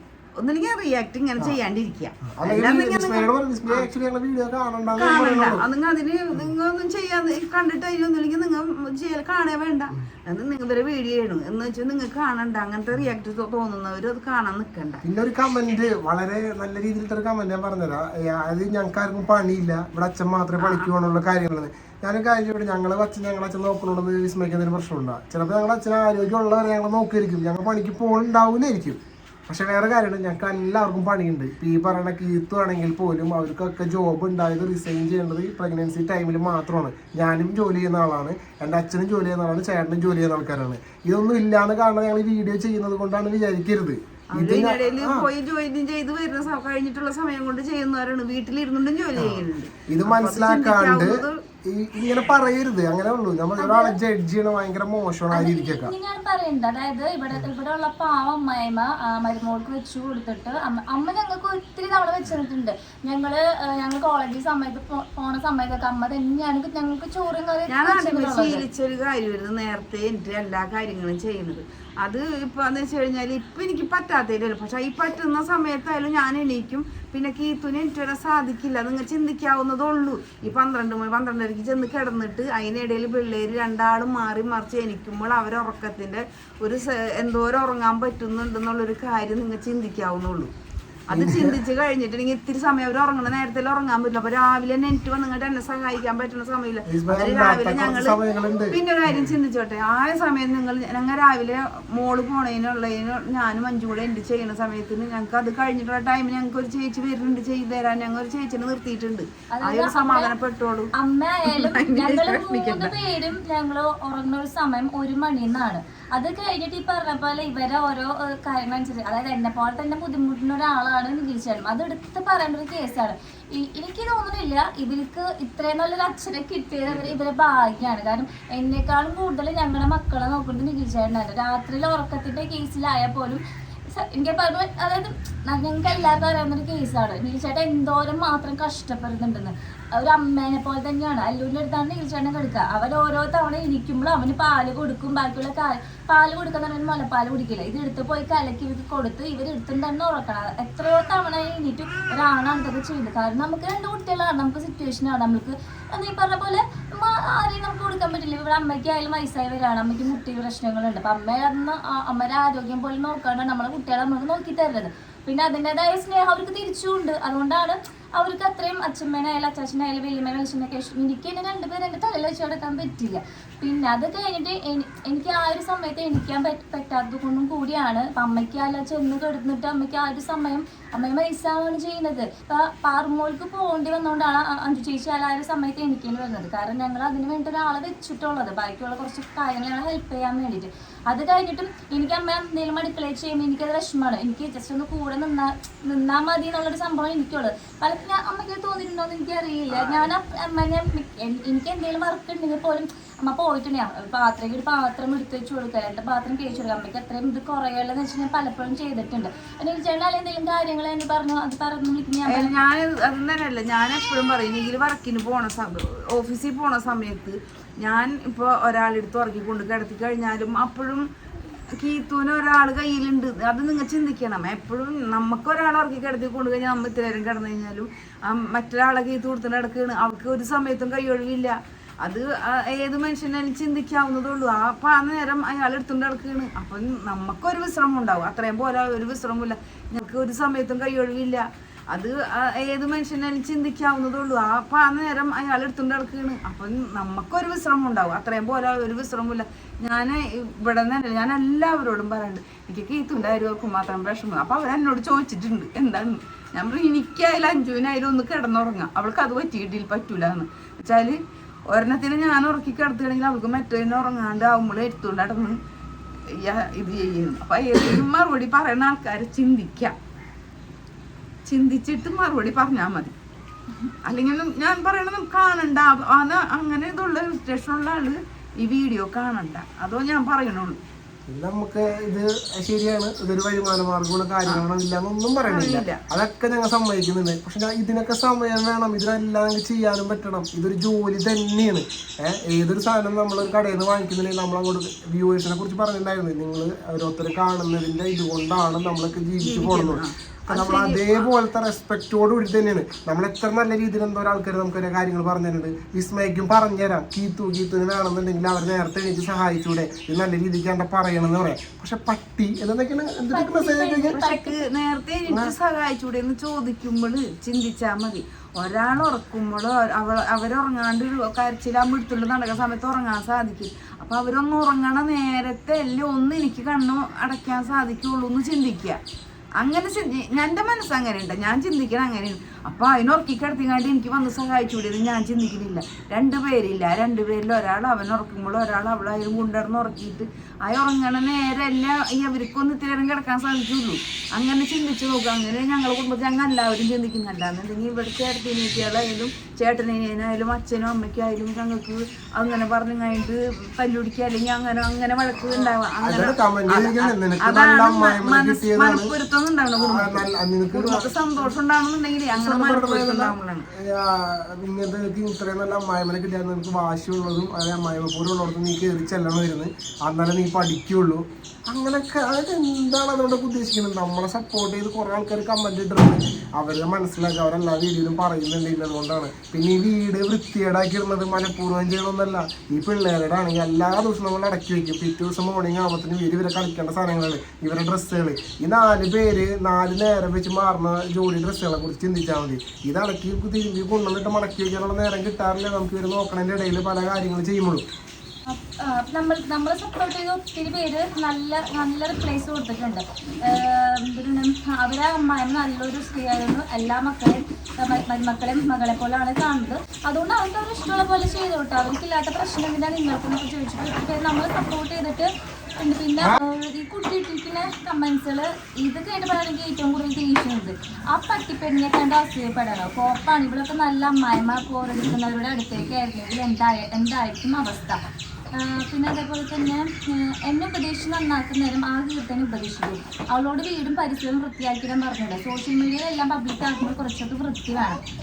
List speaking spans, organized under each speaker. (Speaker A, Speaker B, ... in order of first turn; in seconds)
Speaker A: 0.4-3.9, 5.0-15.0, 20.6-20.9, 44.3-51.4, 67.7-90.5, 91.1-98.2, 98.7-110.9, 111.5-112.9, 199.7-200.1, 212.3-221.1, 221.8-265.6, 266.3-270.0, 271.5-273.1, 274.1-280.8, 285.5-286.0, 299.4-301.3, 314.1-329.0, 329.6-363.7
Speaker B: 2.3-5.6, 15.0-45.3, 49.1-55.9, 91.1-91.6, 96.9-99.4, 281.3-314.2, 315.3-315.5, 355.5-359.1, 359.8-361.1, 362.3-397.9
Speaker C: 53.6-54.0, 55.3-68.6, 109.5-110.3, 110.9-212.5, 313.3-314.6, 398.5-428.0, 428.5-438.0